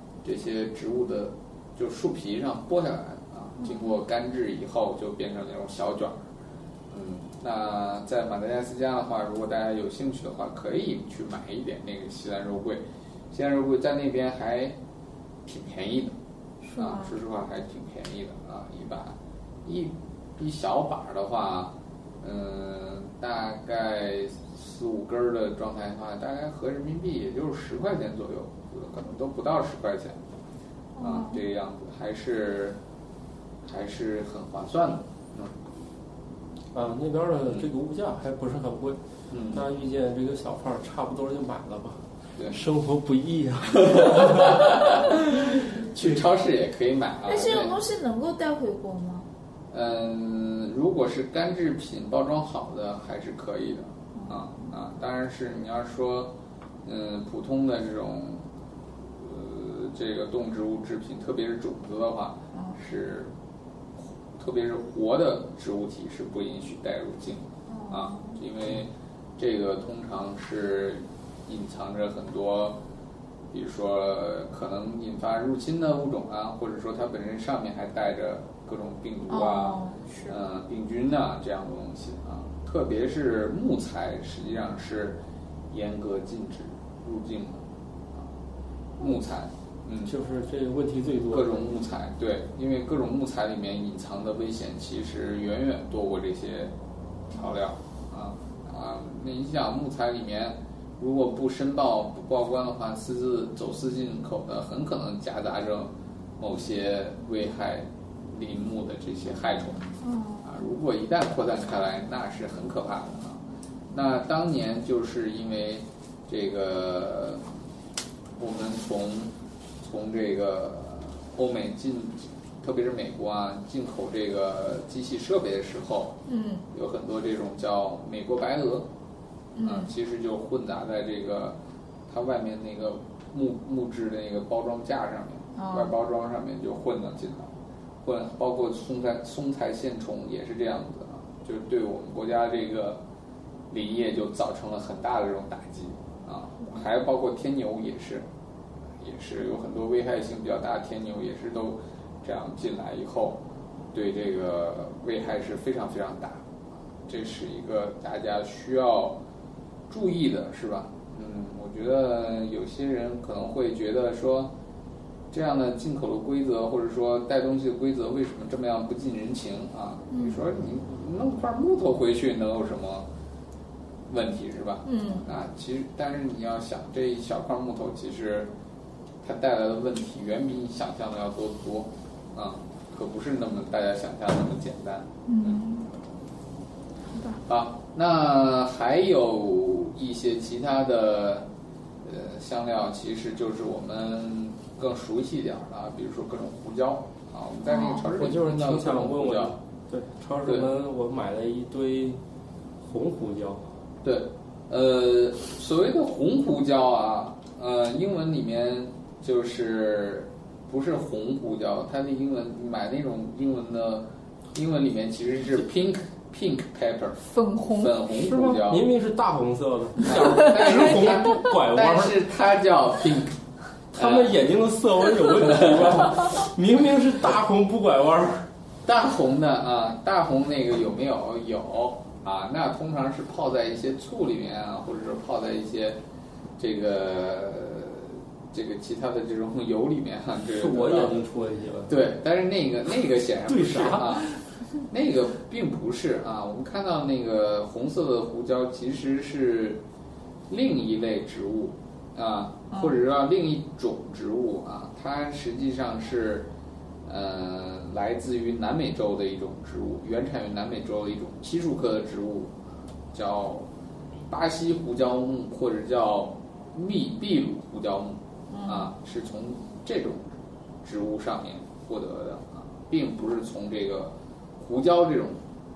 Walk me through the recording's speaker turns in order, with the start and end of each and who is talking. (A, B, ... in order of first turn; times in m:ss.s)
0:00.2-0:06.3 A
0:03.6-0:04.0 B
0:06.9-0:14.8 A
0:15.5-0:16.2 A
0:16.7-0:17.1 B
0:16.8-0:30.2 A
0:31.0-0:31.4 B
0:31.0-0:32.8 A
0:33.7-0:35.5 A
0:36.7-0:39.0 C
0:39.3-0:39.6 A
0:39.5-0:44.6 C
0:43.8-0:47.8 A
0:47.3-0:49.3 B
0:49.7-0:56.3 A
0:54.2-0:54.4 B
0:56.8-0:58.5 A
0:59.2-1:03.3 A
1:04.4-1:12.8 A
1:07.7-1:08.4 B
1:13.5-1:25.2 A
1:19.3-1:20.4 B
1:25.7-1:27.6 A
1:29.0-1:30.1 A
1:30.1-1:31.7 C
1:31.3-1:36.7 A
1:37.3-1:49.9 A
1:50.0-1:50.5 B
1:50.4-1:53.4 A
1:53.9-1:57.4 A
1:58.4-1:59.3 A
1:59.8-2:06.2 A
2:06.3-2:06.6 B
2:06.7-2:08.8 A
2:09.6-2:09.9 B
2:09.6-2:11.6 A
2:12.1-2:17.5 A
2:15.6-2:15.9 B
2:18.0-2:23.0 A
2:23.7-2:28.2 A
2:29.0-2:33.4 A
2:33.9-2:36.5 A
2:37.0-2:39.2 A
2:39.9-2:44.5 A
2:45.3-2:53.1 A
2:50.1-2:50.4 B
2:54.1-2:58.5 A
2:54.8-2:55.3 B
2:59.2-3:05.6 A
3:05.3-3:05.9 B
3:07.1-3:07.4 B
3:07.5-3:11.5 A
3:12.0-3:19.6 A
3:17.7-3:18.0 B
3:18.0-3:22.2 C
3:20.4-3:20.7 A
3:22.8-3:23.7 C
3:24.0-3:38.9 A
3:37.3-3:38.0 B
3:38.1-3:42.2 C
3:40.0-3:43.4 A
3:40.2-3:41.4 B
3:43.9-3:44.3 A
3:43.9-3:48.4 C
3:45.4-3:46.1 A
3:48.8-3:56.0 A
3:56.6-4:01.2 A
4:00.5-4:02.0 C
4:01.9-4:04.3 A
4:03.5-4:04.4 C
4:04.9-4:09.8 A
4:10.5-4:16.5 A
4:17.0-4:22.6 A
4:23.1-4:23.7 A
4:24.3-4:35.4 A
4:28.5-4:28.9 B